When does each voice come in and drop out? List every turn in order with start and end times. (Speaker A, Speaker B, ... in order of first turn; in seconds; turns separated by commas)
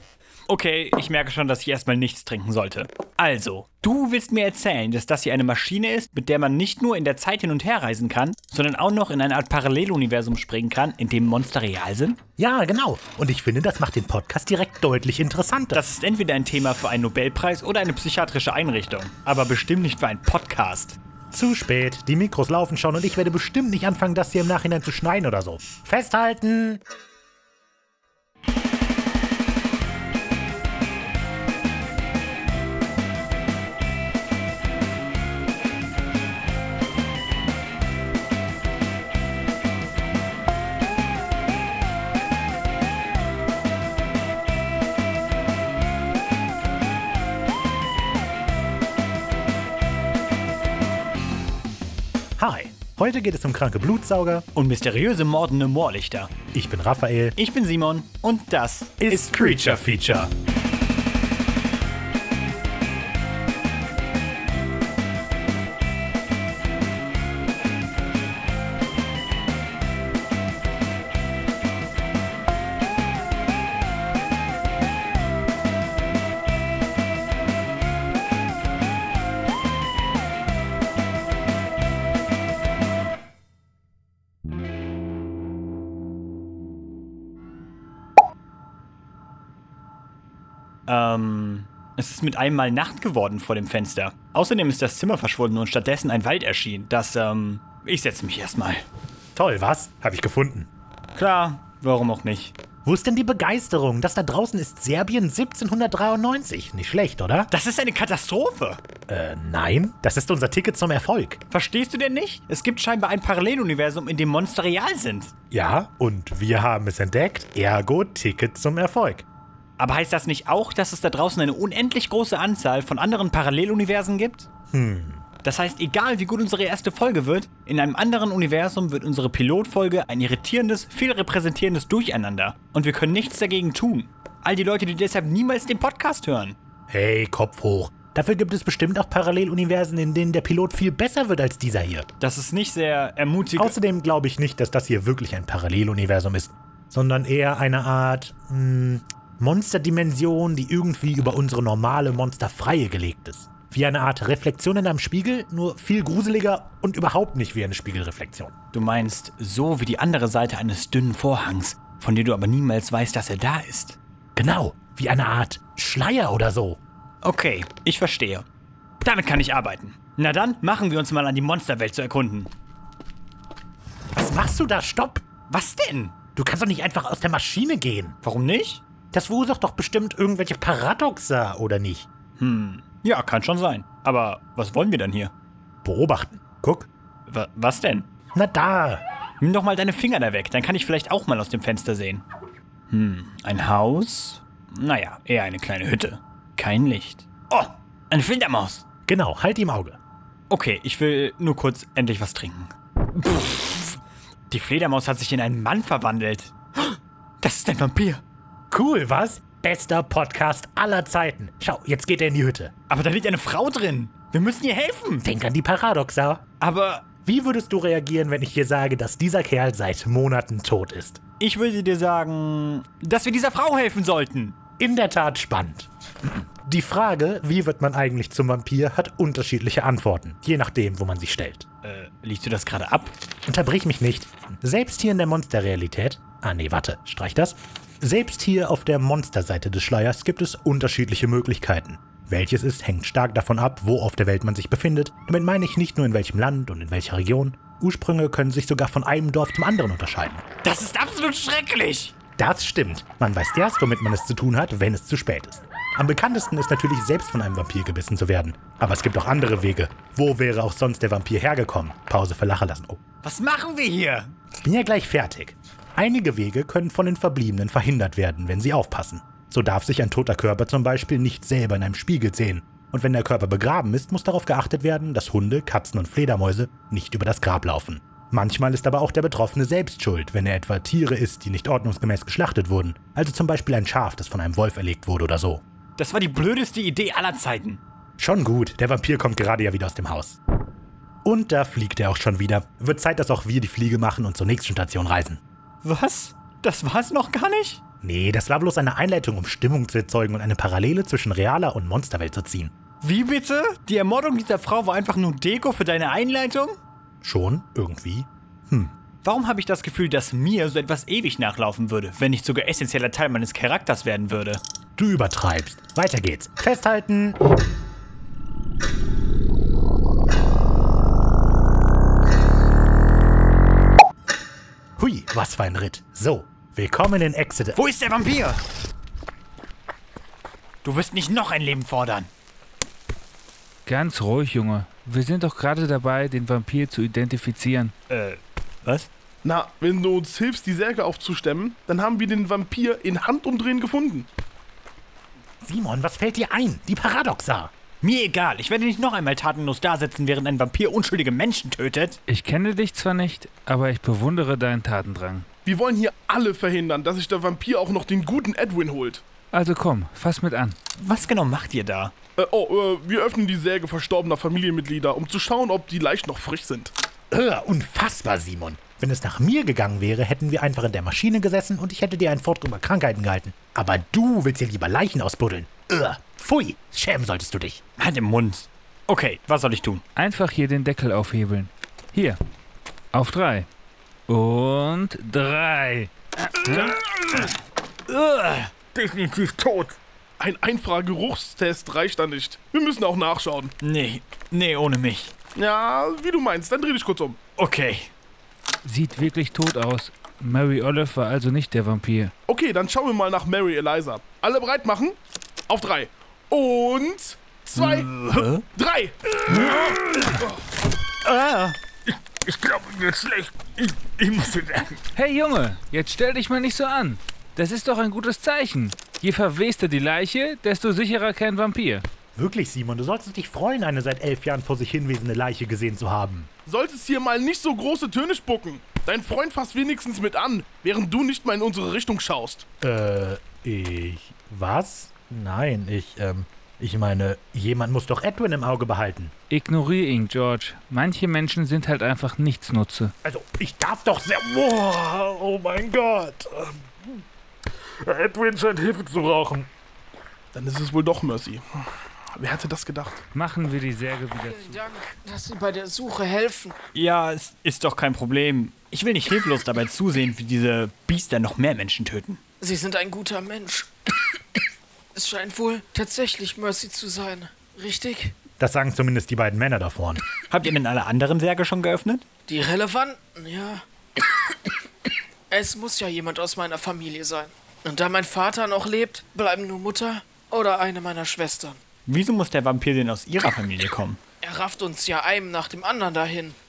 Speaker A: 0.5-12.2, Speaker B: 12.4-15.8, Speaker A: 15.7-21.0, Speaker B: 21.3-26.8, Speaker B: 52.4-54.5, Speaker A: 54.5-56.3, Speaker B: 56.5-57.4, Speaker A: 57.4-59.8, Speaker B: 59.0-60.3, Speaker A: 90.9-98.8, Speaker B: 99.3-100.7, Speaker A: 101.1-102.5, Speaker B: 102.8-107.5, Speaker A: 107.5-108.8, Speaker B: 109.1-111.4, Speaker A: 111.5-115.3, Speaker B: 115.5-119.2, Speaker A: 119.8-124.5, Speaker B: 124.7-125.2, Speaker A: 125.4-136.6, Speaker B: 136.9-142.1, Speaker A: 142.2-143.8, Speaker B: 143.6-158.5, Speaker A: 158.7-164.0, Speaker B: 164.3-166.8, Speaker A: 167.2-168.4, Speaker A: 169.0-172.5, Speaker B: 174.2-175.2, Speaker A: 175.5-176.2, Speaker B: 176.3-178.1, Speaker A: 178.2-178.8, Speaker B: 179.1-182.1, Speaker A: 182.4-185.3, Speaker B: 185.8-186.9, Speaker A: 187.3-188.1, Speaker B: 188.3-189.0, Speaker A: 189.4-192.2, Speaker A: 192.9-198.8, Speaker B: 199.1-200.0, Speaker A: 200.5-204.0, Speaker A: 204.5-208.2, Speaker B: 208.7-212.7, Speaker A: 212.9-215.2, Speaker B: 215.2-216.4, Speaker A: 216.6-217.1, Speaker B: 217.2-221.2, Speaker A: 221.4-224.6, Speaker B: 224.8-231.7, Speaker A: 231.8-233.1, Speaker B: 233.4-250.4, Speaker A: 250.6-252.1, Speaker B: 252.4-263.0, Speaker A: 263.2-264.3, Speaker B: 264.6-285.6, Speaker A: 286.0-287.8, Speaker B: 288.2-290.4, Speaker B: 291.2-295.4, Speaker A: 295.8-297.8, Speaker B: 298.0-302.7, Speaker A: 303.0-306.8, Speaker B: 307.2-308.9, Speaker A: 309.2-314.6, Speaker B: 315.0-317.4, Speaker B: 325.0-327.8, Speaker A: 327.8-328.6, Speaker A: 330.8-332.3, Speaker C: 333.9-337.9, Speaker A: 338.1-339.1, Speaker D: 339.4-344.3, Speaker B: 345.6-347.7, Speaker A: 348.0-352.2, Speaker C: 352.3-355.5, Speaker D: 355.6-359.2, Speaker C: 359.5-360.8, Speaker A: 360.9-362.1, Speaker D: 362.4-366.9, Speaker B: 367.3-377.8, Speaker A: 378.0-380.0, Speaker C: 380.1-382.4, Speaker C: 383.1-383.7, Speaker C: 384.3-387.0, Speaker A: 386.6-387.5, Speaker A: 388.1-389.6, Speaker D: 390.4-393.7, Speaker A: 393.8-395.3, Speaker D: 395.5-397.4, Speaker A: 397.6-398.1, Speaker C: 398.8-402.3, Speaker D: 402.5-405.2, Speaker D: 405.7-409.7, Speaker A: 407.8-408.6, Speaker A: 409.5-410.3, Speaker A: 411.2-415.0, Speaker C: 415.1-422.0, Speaker B: 422.4-426.5, Speaker D: 426.6-432.6, Speaker B: 432.8-439.3, Speaker C: 439.5-443.1, Speaker B: 443.2-447.2, Speaker B: 448.0-449.7, Speaker D: 450.5-453.2, Speaker C: 453.3-454.8, Speaker E: 454.4-456.7, Speaker A: 456.9-462.4, Speaker E: 462.6-463.9, Speaker E: 465.1-468.4, Speaker B: 468.6-470.2, Speaker A: 470.5-472.2, Speaker E: 472.5-473.8, Speaker E: 475.5-481.8, Speaker A: 482.1-484.2, Speaker E: 484.4-486.6